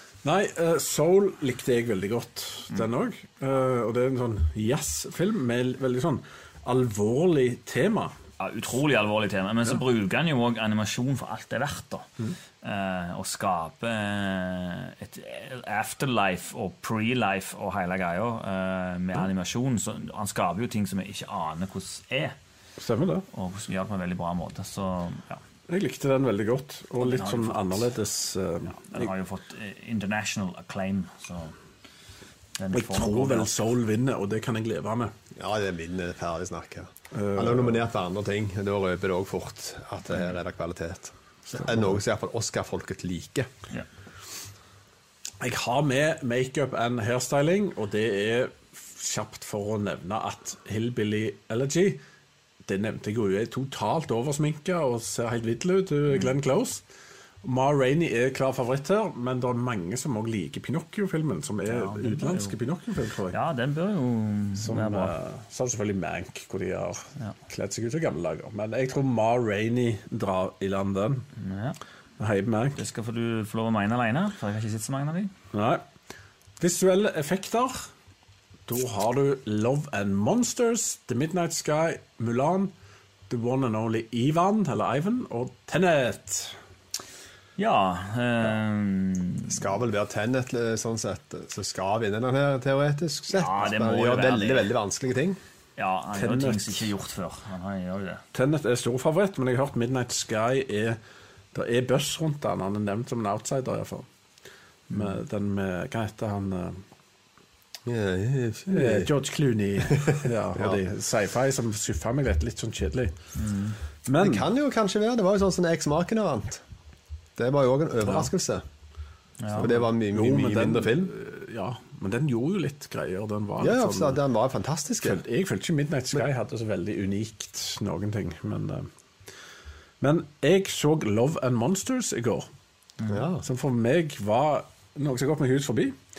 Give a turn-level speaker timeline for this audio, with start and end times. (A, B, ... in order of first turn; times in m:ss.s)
0:00.2-0:08.1 A
0:08.4-0:12.1 B
0:12.6-0:22.4 B
0:22.8-0:23.2 A
0:23.3-0:25.4 B
0:25.7-0:29.1 A
0:27.0-0:27.9 B
0:28.6-0:31.5 B
0:32.6-0:33.5 B
0:32.7-0:35.1 A
0:35.4-0:43.5 C
0:37.1-0:37.8 A
0:41.5-0:42.0 A
0:45.4-0:52.0 A
0:52.6-0:56.8 A
0:57.4-1:03.4 A
1:01.6-1:02.5 B
1:03.3-1:05.1 B
1:04.6-1:11.2 A
1:11.4-1:11.8 B
1:12.2-1:12.8 A
1:12.8-1:15.3 B
1:15.5-1:15.8 A
1:16.6-1:17.9 A
1:18.7-1:22.7 A
1:23.3-1:26.6 A
1:27.6-1:29.7 B
1:29.5-1:35.4 C
1:33.3-1:34.7 B
1:35.8-1:38.2 B
1:36.1-1:36.9 A
1:38.3-1:41.0 A
1:41.5-1:44.0 A
1:44.9-1:46.8 A
1:47.8-1:49.1 C
1:48.7-1:53.1 A
1:49.8-1:50.8 C
1:53.4-1:53.8 B
1:54.0-1:54.5 A
1:54.2-1:56.6 C
1:57.4-1:58.6 C
1:59.4-1:59.7 B
1:59.6-2:01.1 C
1:59.6-2:04.2 A
2:03.6-2:05.2 C
2:05.0-2:08.9 A
2:10.0-2:12.5 A
2:13.0-2:13.2 B
2:13.1-2:13.4 C
2:13.4-2:16.0 A